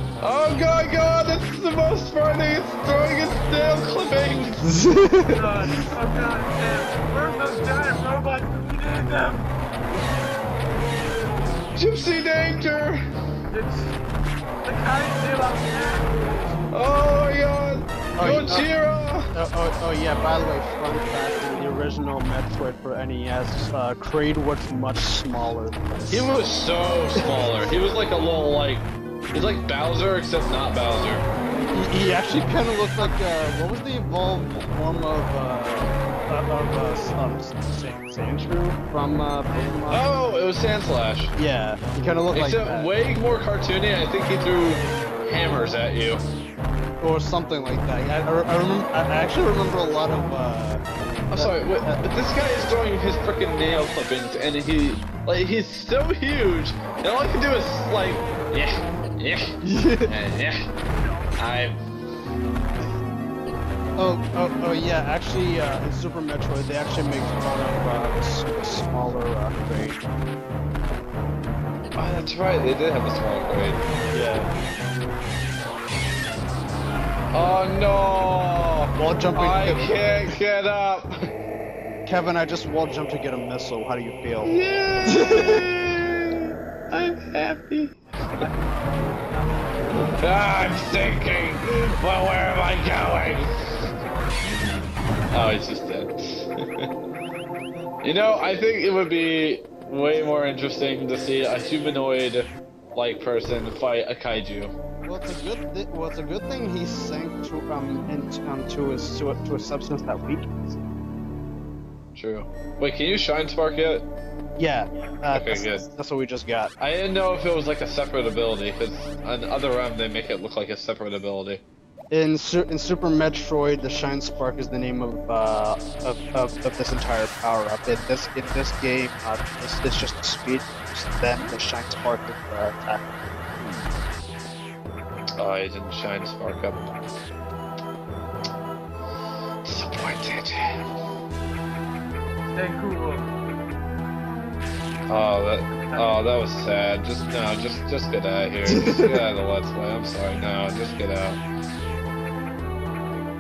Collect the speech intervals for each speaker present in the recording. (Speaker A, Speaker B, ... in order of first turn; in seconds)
Speaker A: 0.2-4.6, 11.8-13.0, 16.7-19.3, 26.1-31.2, 39.9-41.3, 42.3-46.2, 51.3-59.5, 60.0-60.6, 61.4-61.8, 72.0-73.8, 77.3-81.1, 84.4-88.0, 90.2-93.5, 95.3-96.9, 98.0-104.7, 112.1-114.1, 115.3-115.8, 116.8-121.6, 135.4-136.8, 139.6-140.8, 145.1-151.4
Speaker B: 4.6-5.5, 18.1-18.7, 19.3-26.3, 31.7-40.0, 41.4-42.9, 47.0-52.0, 59.6-60.1, 64.0-70.0, 74.1-74.5, 79.0-80.4, 82.0-84.5, 85.1-85.7, 105.0-110.5, 114.6-116.7, 122.1-133.0, 148.7-149.1
Speaker C: 5.3-9.5, 13.5-13.9, 14.6-16.5, 60.9-61.5, 88.4-89.8, 142.5-143.3, 145.7-146.2